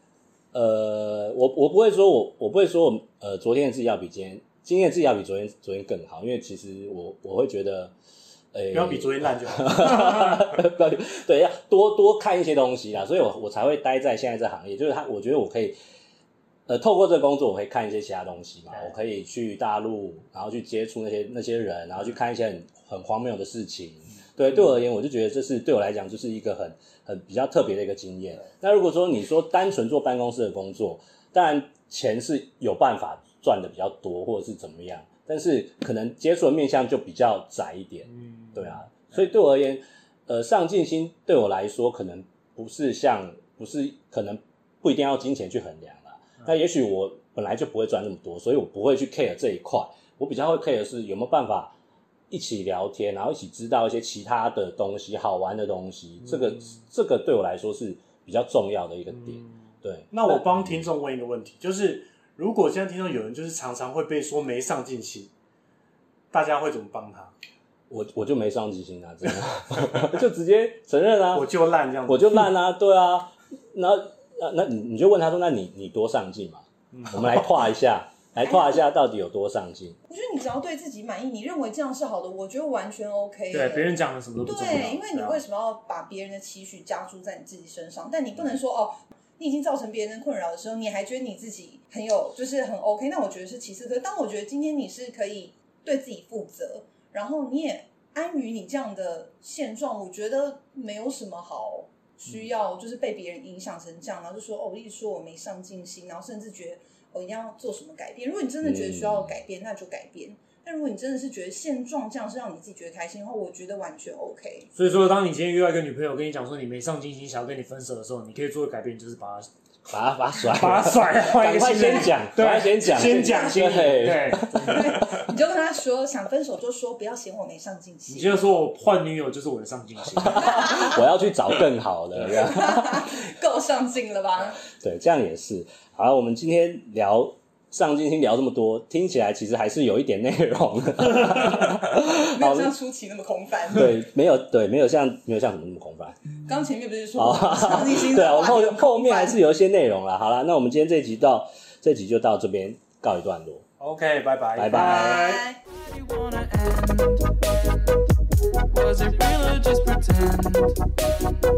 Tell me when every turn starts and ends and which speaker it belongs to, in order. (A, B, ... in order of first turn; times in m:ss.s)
0:00.5-0:07.9 A
0:08.5-0:15.8 A
0:08.7-0:10.5 B
0:16.7-0:51.7 A
0:38.1-0:39.0 C
0:52.3-1:00.9 A
0:56.3-0:56.6 C
0:59.1-0:59.5 C
1:00.1-1:05.3 B
1:06.3-1:07.3 B
1:07.9-1:11.5 A
1:11.3-1:12.5 B
1:12.0-1:20.0 A
1:16.9-1:17.2 C
1:18.4-1:18.8 D
1:20.1-1:54.7 D
1:23.5-1:25.4 C
1:48.6-1:49.4 A
1:54.8-1:59.5 C
1:59.9-2:05.3 A
2:00.3-2:04.9 C
2:03.2-2:03.6 D
2:04.5-2:08.5 D
2:08.1-2:10.7 C
2:10.2-2:13.1 A
2:10.4-2:11.0 D
2:12.3-2:14.6 D
2:14.7-2:22.7 A
2:22.2-2:23.9 D
2:23.7-2:26.2 A
2:26.4-2:29.4 D
2:27.2-2:33.6 A
2:33.8-2:35.4 B
2:34.5-2:35.4 A
2:34.8-2:35.6 D
2:35.2-2:38.0 E
2:38.7-2:40.8 E